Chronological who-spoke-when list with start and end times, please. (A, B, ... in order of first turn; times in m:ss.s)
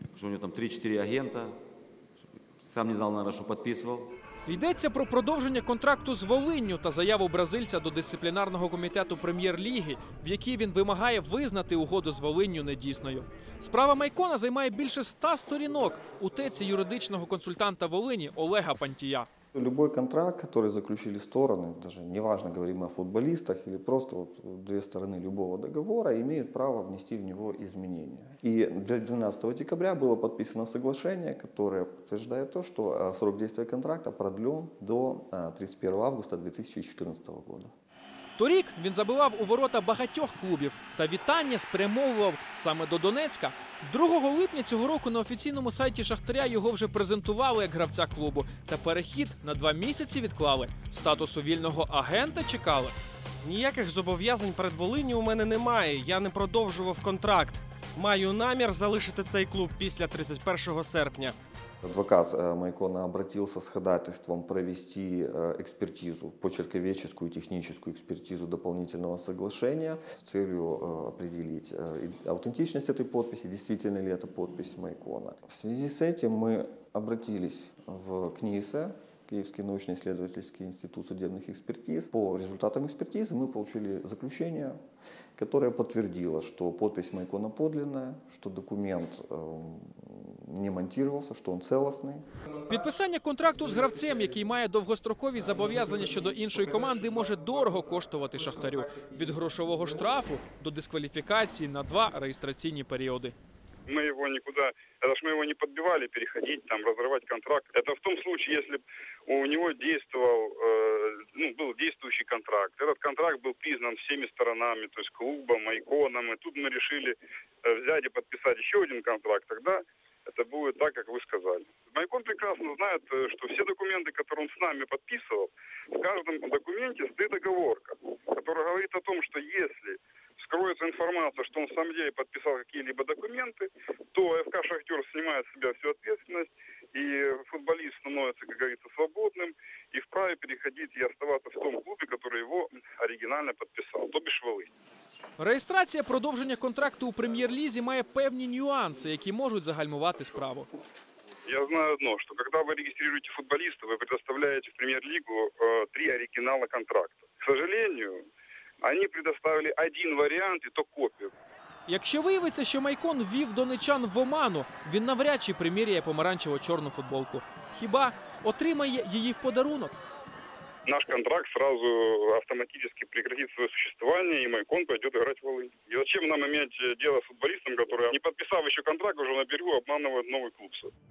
0:00.1-0:01.5 A
0:02.6-0:04.1 A
0:04.4-0:19.3 B
0:19.5-0:37.7 C
0:38.4-0:52.9 B
0:53.4-1:01.3 D
1:01.8-1:24.8 C
1:25.4-1:32.2 C
1:32.7-1:43.3 B
1:43.9-2:24.7 E
2:25.4-2:30.7 B
2:31.5-2:38.2 E
2:38.8-2:41.3 E
2:41.9-2:50.0 B
2:50.9-3:00.9 E